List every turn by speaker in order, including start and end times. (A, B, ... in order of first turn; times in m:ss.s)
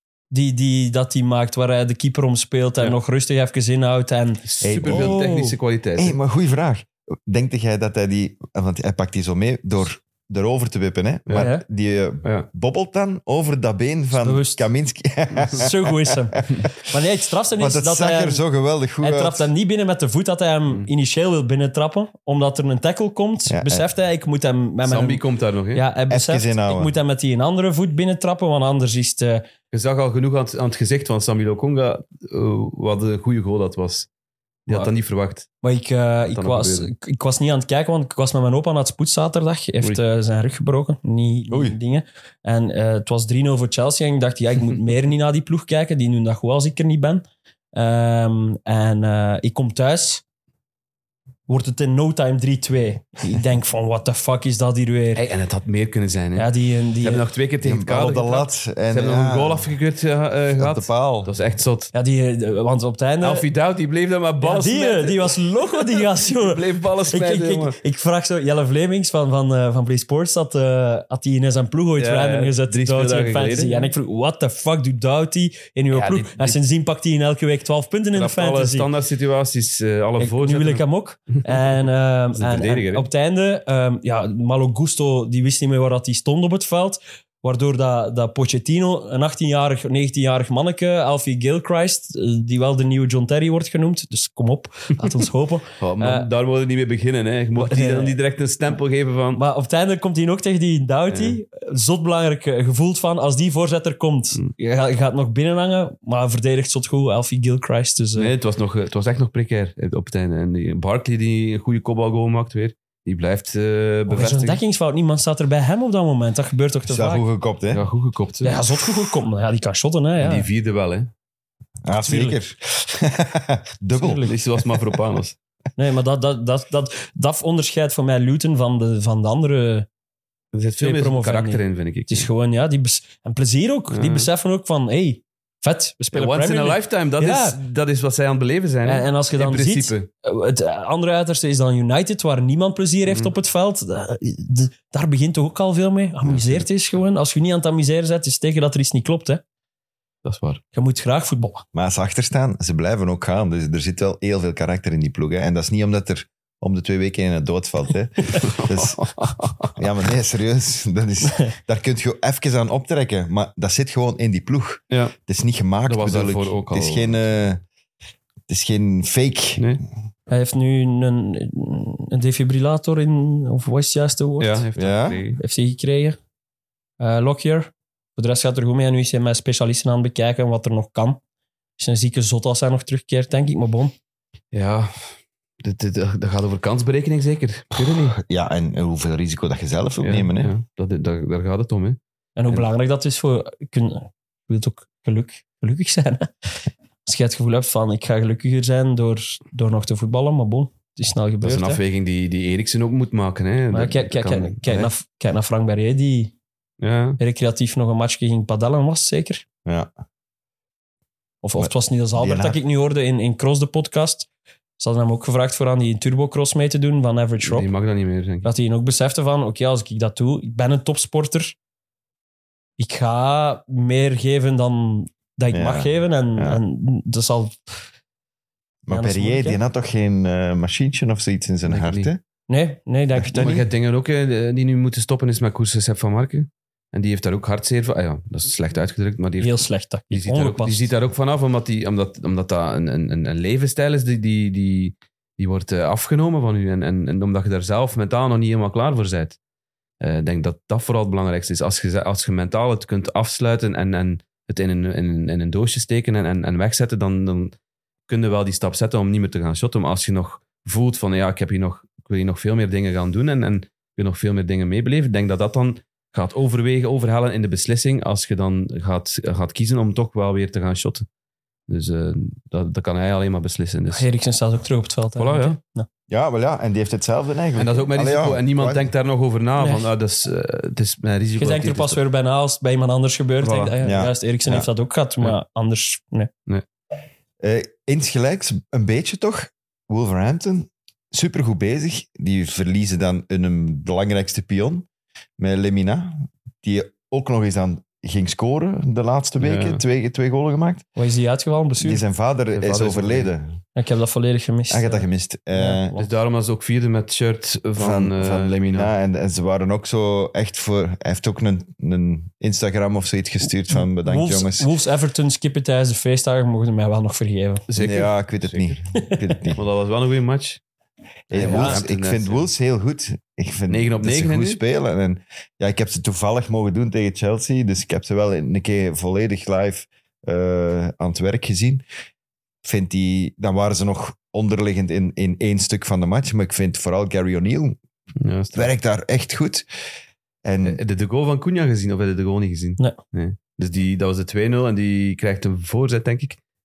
0:00.3-0:05.6 A
0:04.4-0:06.2 B
0:04.6-0:05.2 C
0:06.0-0:16.4 C
0:11.3-0:11.6 A
0:14.1-0:14.6 A
0:15.5-0:18.4 A
0:17.6-0:19.5 C
0:19.0-0:29.5 A
0:23.5-0:23.8 C
0:24.8-0:25.8 B
0:26.1-0:26.9 C
0:29.7-0:34.1 B
0:34.6-0:35.5 B
0:35.6-0:50.2 A
0:36.2-0:36.9 B
0:51.5-0:55.2 A
0:55.1-0:56.5 B
0:56.4-0:57.2 A
0:57.0-1:01.9 B
0:57.6-0:59.7 C
1:00.6-1:01.3 C
1:01.9-1:03.5 A
1:03.2-1:07.8 B
1:04.4-1:18.9 A
1:12.0-1:13.9 B
1:15.9-1:16.6 B
1:18.1-1:20.8 B
1:20.2-1:36.3 A
1:22.3-1:23.1 B
1:35.8-1:39.4 B
1:37.5-1:38.2 A
1:39.3-1:48.3 A
1:41.1-1:41.4 B
1:48.2-1:54.6 B
1:54.1-1:57.2 A
1:56.8-1:57.8 C
1:57.7-1:58.6 B
1:58.4-2:00.5 A
2:00.2-2:01.1 B
2:01.8-2:04.4 C
2:02.0-2:02.4 A
2:04.0-2:04.3 A
2:04.2-2:05.4 B
2:05.8-2:09.8 A
2:10.5-2:12.3 B
2:10.8-2:17.6 A
2:13.9-2:14.3 B
2:16.1-2:20.1 B
2:18.8-2:29.4 A
2:23.1-2:23.3 B
2:26.2-2:26.6 B
2:30.2-2:30.6 B
2:30.7-2:31.6 A
2:31.7-2:39.0 C
2:38.4-2:39.7 B
2:39.7-2:47.6 C
2:45.9-2:47.2 B
2:48.5-2:49.6 C
2:50.3-2:54.6 A
2:54.4-2:55.4 B
2:54.8-2:55.2 C
2:55.4-2:56.2 A
2:57.0-3:01.2 A
3:01.8-3:03.9 A
3:04.5-3:08.2 B
3:08.1-3:10.5 C
3:10.0-3:12.0 B
3:12.4-3:21.8 A
3:21.4-3:24.9 B
3:23.7-3:26.3 A
3:26.8-3:27.2 B
3:27.2-3:29.4 A
3:29.6-3:29.9 C
3:31.4-3:34.3 A
3:31.6-3:32.6 C
3:34.8-3:37.7 A
3:37.4-3:38.5 B
3:38.4-3:41.5 A
3:42.8-3:47.7 A
3:45.5-3:46.6 C
3:48.8-3:52.2 C
3:48.9-3:49.6 A
3:51.6-3:52.1 B
3:52.5-3:53.6 A
3:53.2-3:53.6 C
3:53.3-4:09.4 B
3:59.4-4:00.9 A
4:10.0-4:17.5 B
4:18.1-4:31.0 B
4:31.7-4:34.0 B
4:33.9-4:35.9 A
4:35.2-4:35.6 B
4:36.1-4:38.8 C
4:37.6-4:42.0 B
4:39.6-4:39.9 A
4:41.4-4:46.3 A
4:43.4-4:43.8 B
4:43.8-4:44.7 C
4:47.4-4:54.8 C
4:55.4-5:00.8 C
4:59.4-4:59.8 B
5:01.0-5:02.0 A
5:01.8-5:03.6 C
5:02.5-5:03.3 B
5:03.8-5:06.0 A
5:04.7-5:05.9 C
5:06.0-5:08.9 B
5:07.8-5:14.7 C
5:13.7-5:17.6 A
5:17.7-5:18.8 B
5:17.8-5:19.6 C
5:19.5-5:20.6 B
5:21.3-5:31.8 C
5:21.3-5:22.5 B
5:21.3-5:21.8 A
5:23.7-5:24.6 B
5:32.6-5:37.8 C
5:38.2-5:38.7 B
5:38.5-5:39.6 C
5:40.4-5:40.8 C
5:40.6-5:46.4 B